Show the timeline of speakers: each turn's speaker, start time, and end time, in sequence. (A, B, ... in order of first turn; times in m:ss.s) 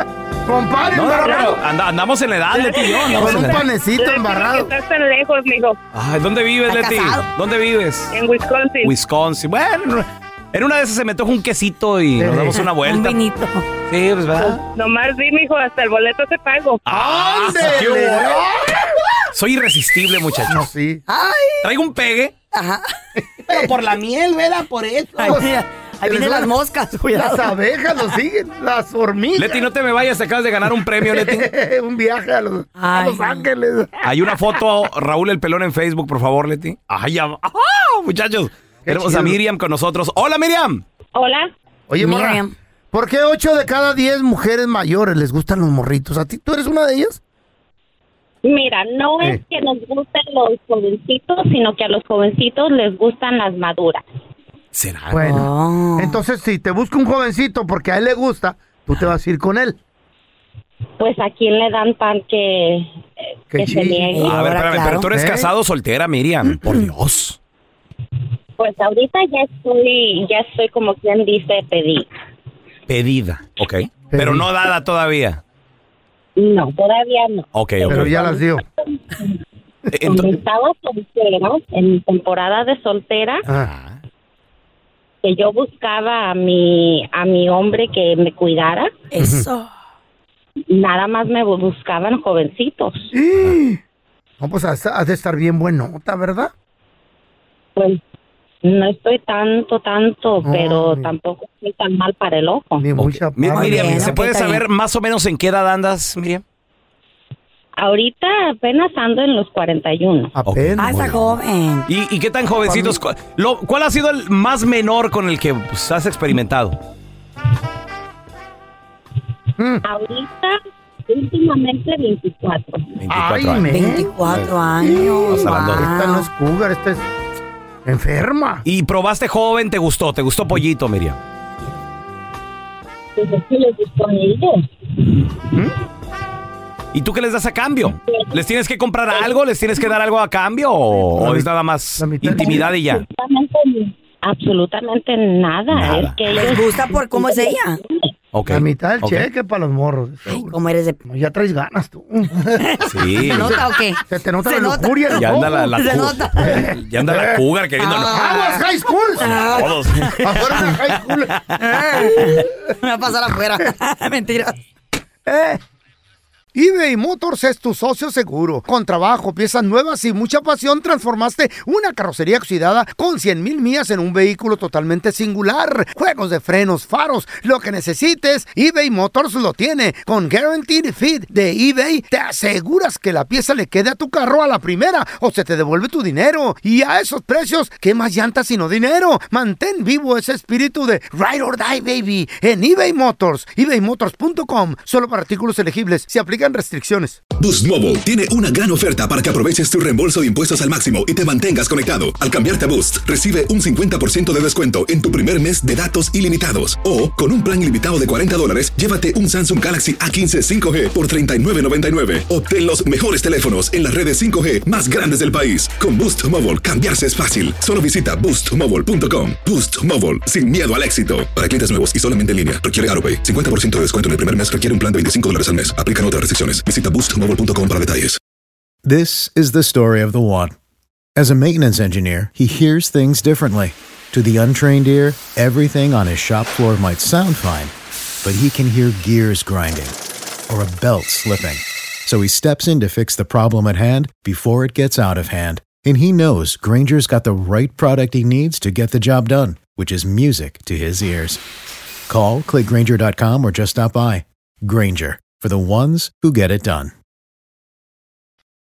0:00.5-0:01.6 A
0:00.9-0:03.6 B
0:03.2-0:04.7 A
0:03.4-0:05.8 C
0:05.9-0:08.1 B
0:06.7-0:07.2 D
0:08.1-0:08.9 C
0:08.8-0:13.2 B
0:12.2-0:12.6 A
0:12.8-0:13.7 D
0:13.9-0:14.6 B
0:14.4-0:16.8 C
0:16.9-0:18.4 B
0:16.9-0:18.9 A
0:19.3-0:20.6 B
0:20.5-0:21.0 A
0:21.1-0:21.7 D
0:21.6-0:22.3 B
0:22.5-0:22.9 D
0:23.5-0:23.7 A
0:23.5-0:25.3 B
0:25.2-0:27.5 D
0:25.2-0:25.5 A
0:26.0-0:26.5 A
0:27.1-0:29.7 A
0:29.4-0:31.5 B
0:31.0-0:34.0 A
0:32.8-0:33.4 D
0:34.0-0:40.8 B
0:38.9-0:39.4 A
0:41.2-0:41.5 E
0:41.9-0:47.2 A
0:42.0-0:42.5 D
0:48.4-0:54.0 E
0:54.7-0:55.4 B
0:55.1-0:59.8 A
0:55.2-0:56.2 D
1:01.0-1:03.0 E
1:03.5-1:04.3 A
1:03.6-1:04.4 E
1:04.1-1:05.1 D
1:04.3-1:07.4 B
1:05.1-1:05.5 A
1:08.6-1:12.1 E
1:12.9-1:15.4 B
1:14.1-1:14.5 A
1:16.4-1:18.4 E
1:17.6-1:18.3 B
1:17.9-1:18.6 A
1:19.1-1:19.4 E
1:19.9-1:20.4 B
1:20.0-1:23.4 E
1:23.5-1:23.7 A
1:23.5-1:24.0 B
1:25.2-1:28.9 E
1:29.1-1:29.7 D
1:29.2-1:29.5 A
1:30.7-1:33.1 E
1:33.1-1:33.8 A
1:34.4-1:36.5 A
1:37.8-1:38.0 E
1:38.6-1:42.8 E
1:40.4-1:41.1 A
1:42.8-1:44.2 A
1:43.0-1:46.4 B
1:43.5-1:44.6 D
1:47.8-1:50.3 E
1:50.4-1:51.1 A
1:50.5-1:51.4 B
1:50.8-1:51.9 D
1:51.9-1:56.8 B
1:52.7-1:53.0 A
1:59.6-1:59.8 A
1:59.8-2:00.6 E
2:01.1-2:02.9 E
2:03.0-2:03.7 B
2:03.1-2:04.1 A
2:03.7-2:06.3 D
2:04.8-2:07.0 A
2:05.3-2:05.9 B
2:07.9-2:08.6 A
2:08.6-2:11.2 B
2:13.2-2:14.7 E
2:16.9-2:23.0 B
2:18.1-2:18.4 E
2:21.2-2:21.5 A
2:22.0-2:22.6 A
2:22.4-2:28.1 E
2:25.7-2:26.2 B
2:26.3-2:27.8 D
2:28.3-2:29.3 B
2:28.5-2:30.6 A
2:30.3-2:31.0 D
2:31.1-2:32.6 A
2:32.6-2:36.7 D
2:32.8-2:33.6 B
2:33.2-2:35.5 A
2:35.2-2:38.6 B
2:36.4-2:37.4 A
2:37.8-2:38.4 D
2:38.0-2:39.4 A
2:39.2-2:40.6 D
2:39.2-2:41.6 B
2:40.2-2:41.4 A
2:41.6-2:44.6 D
2:42.0-2:42.4 A
2:45.3-2:45.6 A
2:46.6-3:17.2 A
3:17.4-3:48.2 F
3:48.8-3:50.6 G
3:51.2-4:00.0 G
4:00.5-4:11.4 G
4:12.1-4:16.9 G